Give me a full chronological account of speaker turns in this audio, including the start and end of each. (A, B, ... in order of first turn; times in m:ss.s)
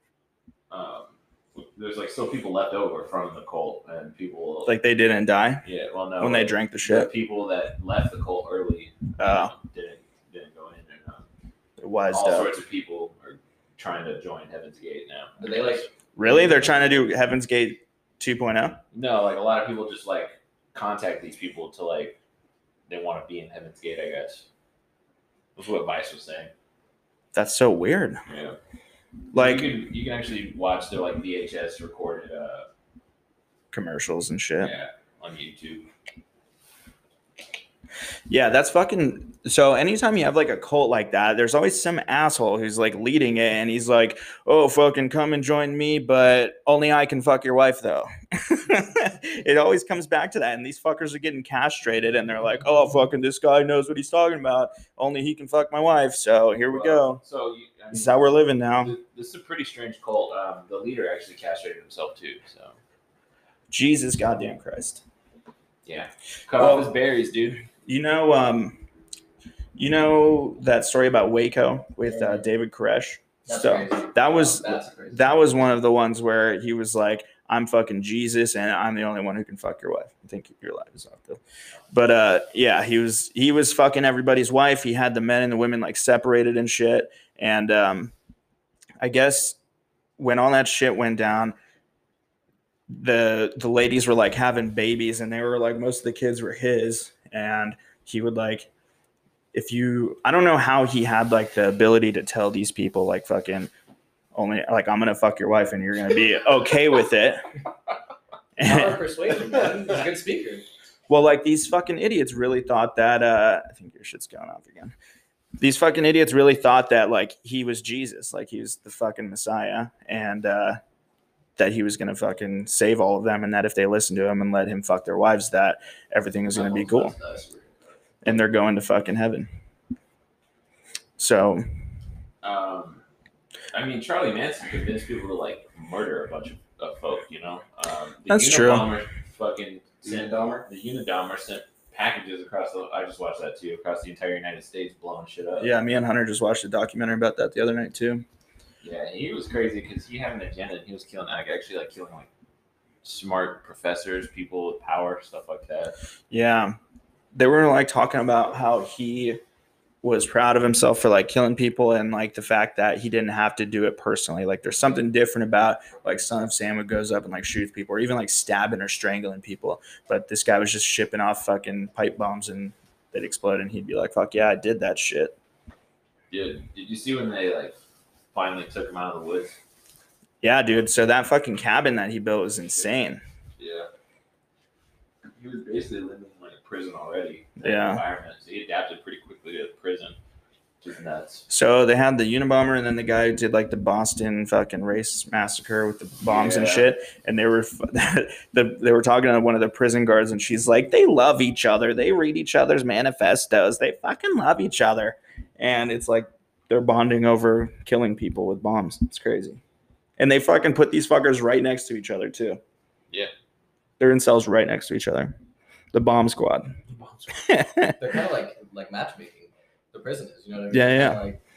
0:00.7-0:04.8 A
0:04.6-0:05.6 B
0:05.6-0:11.3 A
0:06.2-0:07.1 B
0:09.2-0:09.5 B
0:11.8-0:12.5 B
0:12.1-0:15.9 A
0:15.4-0:17.0 C
0:16.2-0:18.8 B
0:18.9-0:22.2 A
0:22.9-0:24.4 A
0:25.6-0:26.5 A
0:27.3-0:28.2 B
0:28.3-0:28.6 A
0:29.3-0:29.7 B
0:29.3-0:32.7 A
0:33.7-0:34.7 B
0:34.6-0:35.9 A
0:38.3-0:57.2 B
0:56.7-1:02.8 A
0:57.9-0:58.9 B
1:03.7-1:05.0 B
1:05.8-1:07.6 A
1:06.6-1:06.9 B
1:07.8-1:08.8 B
1:09.8-1:28.1 B
1:12.1-1:12.4 A
1:13.5-1:15.5 C
1:29.0-1:29.6 B
1:30.2-1:31.6 B
1:32.9-1:38.7 B
1:39.5-1:43.7 B
1:44.3-1:47.4 B
1:48.6-1:49.0 B
1:48.6-1:50.6 C
1:51.1-1:55.0 B
1:55.6-2:00.8 B
2:01.6-2:07.1 B
2:06.5-2:07.9 C
2:08.2-2:09.5 B
2:11.2-2:11.6 B
2:12.4-2:13.0 A
2:13.7-2:25.7 A
2:18.3-2:18.9 B
2:25.6-2:28.2 B
2:28.8-2:32.3 A
2:33.0-2:36.0 A
2:36.3-2:36.8 B
2:37.3-2:39.4 B
2:40.0-2:55.4 B
2:56.3-2:57.8 A
2:58.3-2:59.6 A
3:00.4-3:03.2 B
3:03.6-3:03.9 A
3:05.4-3:10.2 A
3:07.6-3:08.0 B
3:10.8-3:11.4 A
3:11.5-3:29.6 B
3:16.2-3:16.9 A
3:30.2-3:32.6 B
3:34.0-3:35.4 B
3:35.9-3:36.8 B
3:36.9-3:37.4 A
3:37.3-3:38.0 B
3:38.0-3:41.4 C
3:40.7-3:41.2 B